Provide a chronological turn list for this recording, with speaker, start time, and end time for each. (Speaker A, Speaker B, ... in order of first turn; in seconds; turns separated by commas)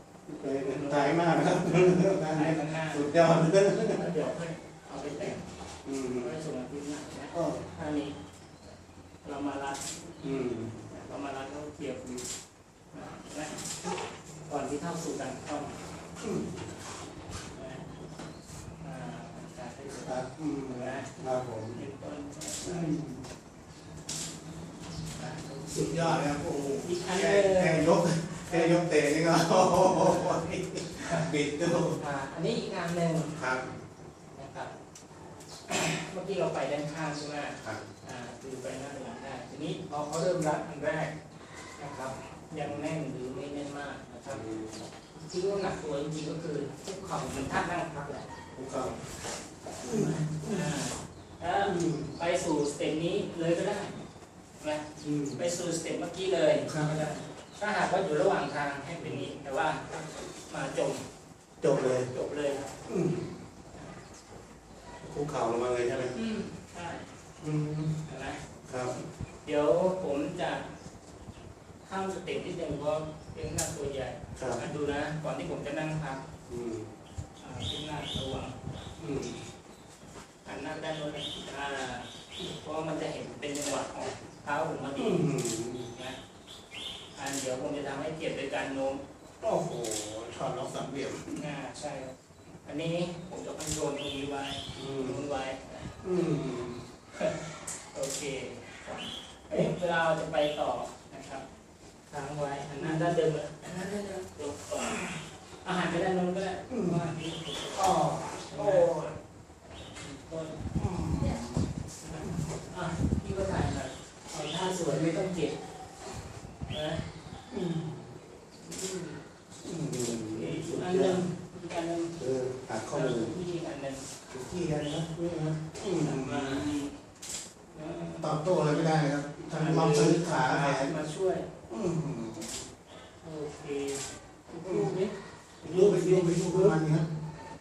Speaker A: 0.3-4.0, Speaker B: 0.4-3.1, Speaker B: 3.9-5.5, Speaker A: 5.8-6.3, Speaker B: 6.2-8.2, Speaker A: 7.3-7.7, Speaker B: 9.2-9.9, Speaker A: 10.2-10.8, Speaker B: 10.9-12.3, Speaker B: 12.9-13.7, Speaker B: 14.5-15.8, Speaker A: 16.2-16.7, Speaker B: 17.5-17.9, Speaker B: 18.8-23.0, Speaker A: 19.9-21.8, Speaker A: 22.6-23.2, Speaker B: 25.0-26.2, Speaker A: 25.7-32.0, Speaker B: 26.8-28.8, Speaker B: 29.8-30.4, Speaker B: 31.0-31.3, Speaker B: 32.0-33.4, Speaker A: 33.4-33.8, Speaker B: 34.4-34.7, Speaker B: 35.7-41.1, Speaker B: 41.8-48.3, Speaker A: 44.3-44.8, Speaker A: 48.6-49.0, Speaker A: 49.8-50.7, Speaker B: 49.8-54.0, Speaker A: 51.6-52.2, Speaker B: 54.6-61.0, Speaker A: 55.0-55.4, Speaker A: 56.6-57.1, Speaker A: 59.0-59.3, Speaker A: 61.6-62.1, Speaker B: 61.8-62.7, Speaker A: 62.9-63.3, Speaker A: 65.0-66.2, Speaker B: 66.1-67.1, Speaker A: 67.4-68.0, Speaker B: 68.1-68.4, Speaker A: 68.7-69.0, Speaker B: 69.4-70.7, Speaker B: 71.8-76.2, Speaker A: 74.4-74.6, Speaker A: 76.5-76.9, Speaker B: 77.4-78.6, Speaker A: 79.0-79.4, Speaker B: 80.5-85.3, Speaker A: 85.0-85.9, Speaker B: 85.9-86.2, Speaker B: 87.2-89.0, Speaker A: 89.4-91.5, Speaker B: 91.4-92.1, Speaker B: 92.7-96.4, Speaker A: 94.7-95.2, Speaker A: 96.0-96.8, Speaker B: 97.1-101.5, Speaker B: 102.1-107.9, Speaker A: 102.8-103.2, Speaker A: 106.7-107.0, Speaker A: 107.8-109.1, Speaker B: 108.5-109.1, Speaker B: 110.0-115.6, Speaker A: 110.8-111.6, Speaker A: 112.2-112.5, Speaker B: 116.7-117.0, Speaker A: 117.5-118.1, Speaker B: 118.6-119.2, Speaker A: 119.6-121.2, Speaker B: 120.0-122.2, Speaker A: 122.2-123.3, Speaker B: 122.9-124.1, Speaker A: 124.3-126.8, Speaker B: 126.0-127.0, Speaker B: 127.7-128.9, Speaker A: 128.2-131.0, Speaker B: 129.5-131.5, Speaker A: 131.7-132.6, Speaker B: 133.2-136.8, Speaker A: 134.7-135.0, Speaker A: 135.6-137.1